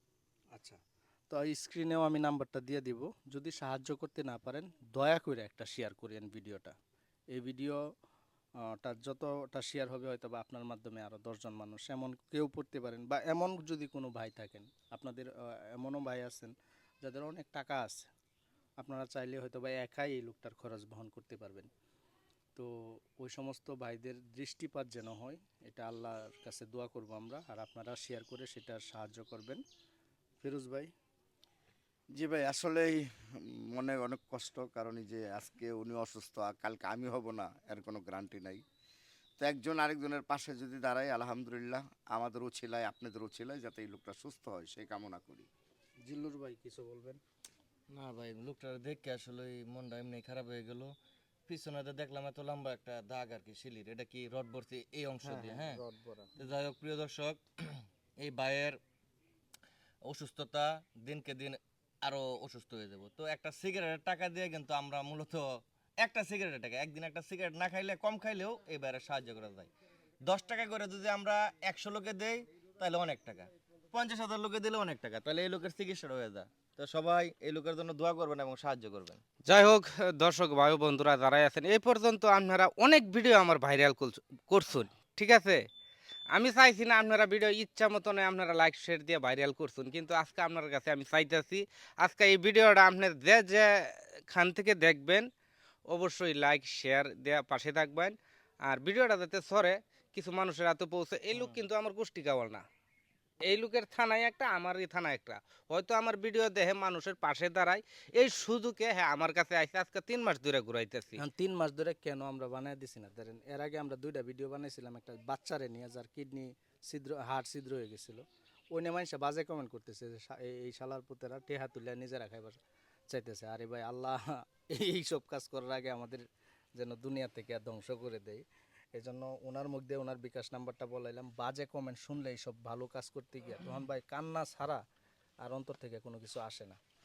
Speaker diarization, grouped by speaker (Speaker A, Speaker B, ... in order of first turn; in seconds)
Speaker A: 0.5-6.8, 7.3-7.8, 8.6-18.1, 18.8-21.7, 22.6-29.6, 30.4-30.9, 46.0-47.2, 55.2-56.3, 101.3-101.6, 111.2-126.2, 126.8-128.4, 128.9-134.8, 135.4-136.8
Speaker B: 32.1-38.6, 39.4-45.5
Speaker C: 47.9-51.0, 51.5-55.8, 56.4-58.8, 60.1-69.7, 70.2-79.2
Speaker D: 79.5-85.6, 86.3-95.3, 95.9-98.2, 98.7-102.6, 103.5-111.2